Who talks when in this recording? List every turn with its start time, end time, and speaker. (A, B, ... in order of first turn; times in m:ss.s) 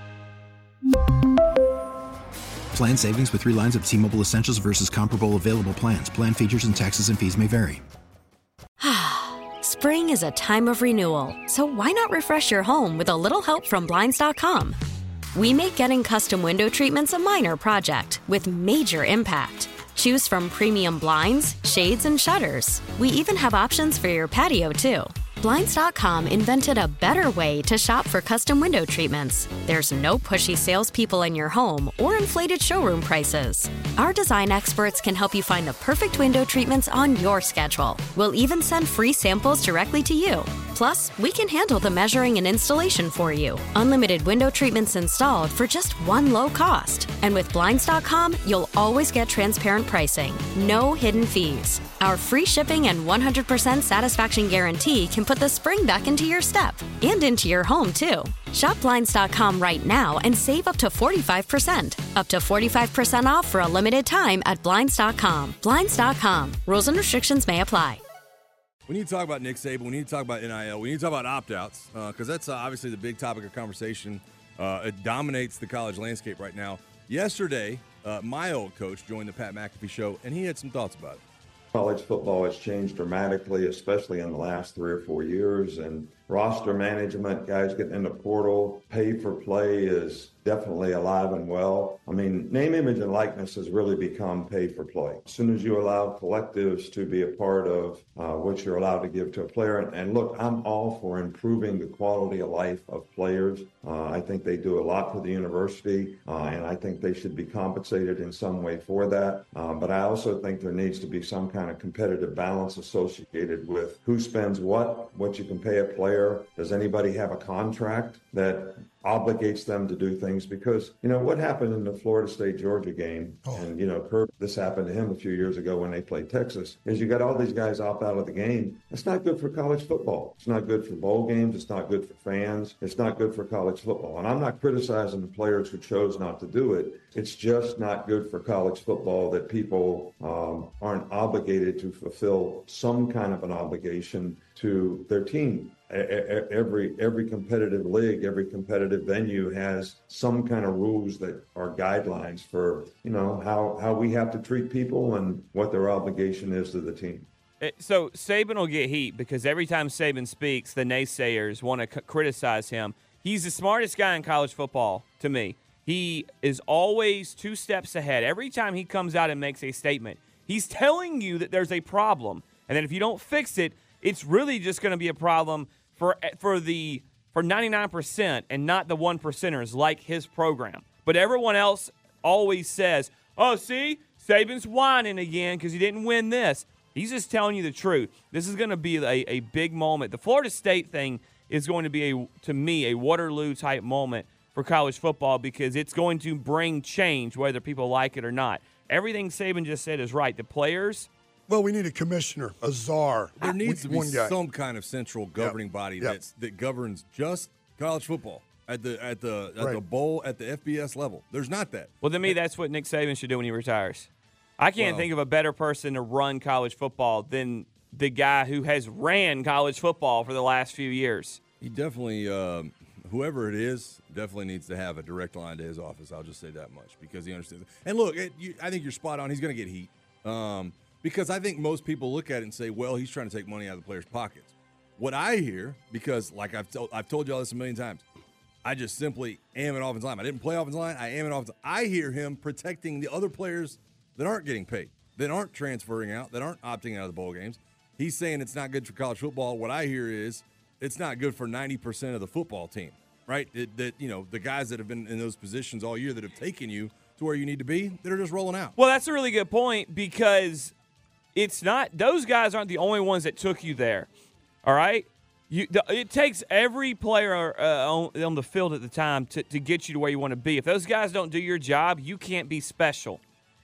0:02.7-0:07.8 A
0:08.8-0:14.8 B
0:15.3-1:08.0 B
1:08.9-1:21.2 C
1:21.7-2:37.3 D
2:37.6-3:21.1 E
3:21.5-3:24.4 F
3:23.4-3:32.4 C
3:25.4-3:26.2 F
3:32.0-3:41.4 E
3:34.8-3:35.1 C
3:41.6-3:58.0 C
3:58.6-4:18.7 C
4:18.8-4:20.7 E
4:21.3-4:24.1 E
4:24.6-4:33.2 E